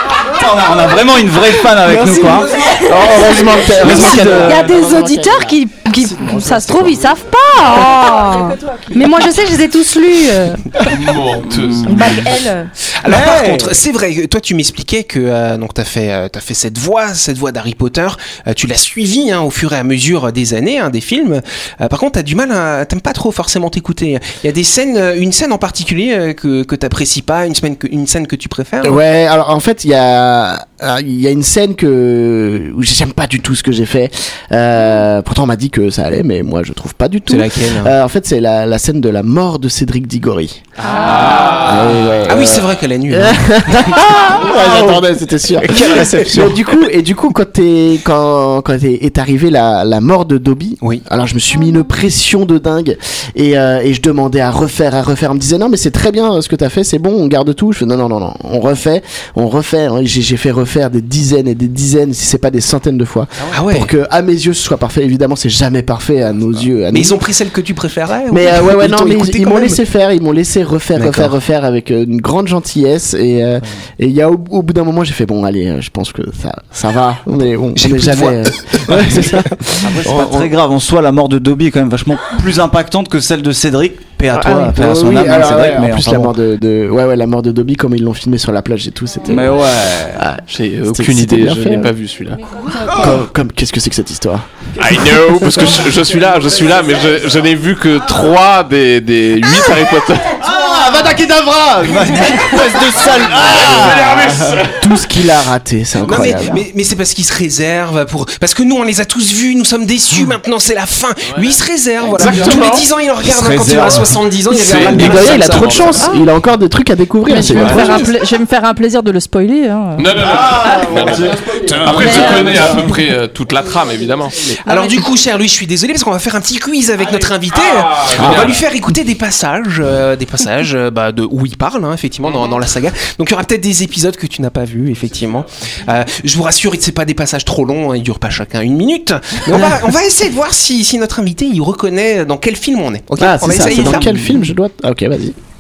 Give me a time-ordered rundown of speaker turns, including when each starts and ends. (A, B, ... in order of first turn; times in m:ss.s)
0:00.2-0:02.6 A
0:02.0-0:05.6 B
0:02.7-0:10.8 C
0:03.6-0:04.7 A
0:06.1-0:07.1 B
0:10.8-0:12.2 D
0:11.5-0:12.0 A
0:11.8-0:12.7 C
0:13.0-0:29.0 E
0:13.1-0:13.8 A
0:28.8-0:40.6 B
0:37.3-0:37.9 E
0:40.9-0:41.9 D
0:41.3-1:07.2 B
0:42.2-0:45.0 E
0:45.6-0:46.6 E
1:03.5-1:03.9 E
1:06.9-1:09.8 E
1:08.3-1:20.5 B
1:11.0-1:11.4 E
1:17.8-1:19.5 E
1:19.8-1:26.4 A
1:24.3-1:31.9 B
1:29.3-1:30.2 A
1:30.5-1:32.4 D
1:32.9-1:34.5 B
1:34.8-1:40.4 D
1:35.7-1:37.2 A
1:40.4-1:44.7 A
1:43.4-1:44.9 D
1:44.6-1:46.6 B
1:46.0-1:56.0 E
1:46.1-1:46.4 A
1:51.3-1:51.5 D
1:52.0-1:52.9 D
1:52.2-1:52.7 A
1:53.2-1:54.3 A
1:54.5-1:56.2 D
1:54.8-1:58.1 B
1:54.8-1:55.2 A
1:57.3-2:00.1 F
1:57.6-1:57.9 A
2:00.0-2:04.5 D
2:00.2-2:03.0 A
2:01.9-2:02.7 F
2:04.6-2:24.4 E
2:07.5-2:08.6 D
2:08.2-2:08.5 B
2:19.5-2:19.8 B
2:23.2-2:25.4 B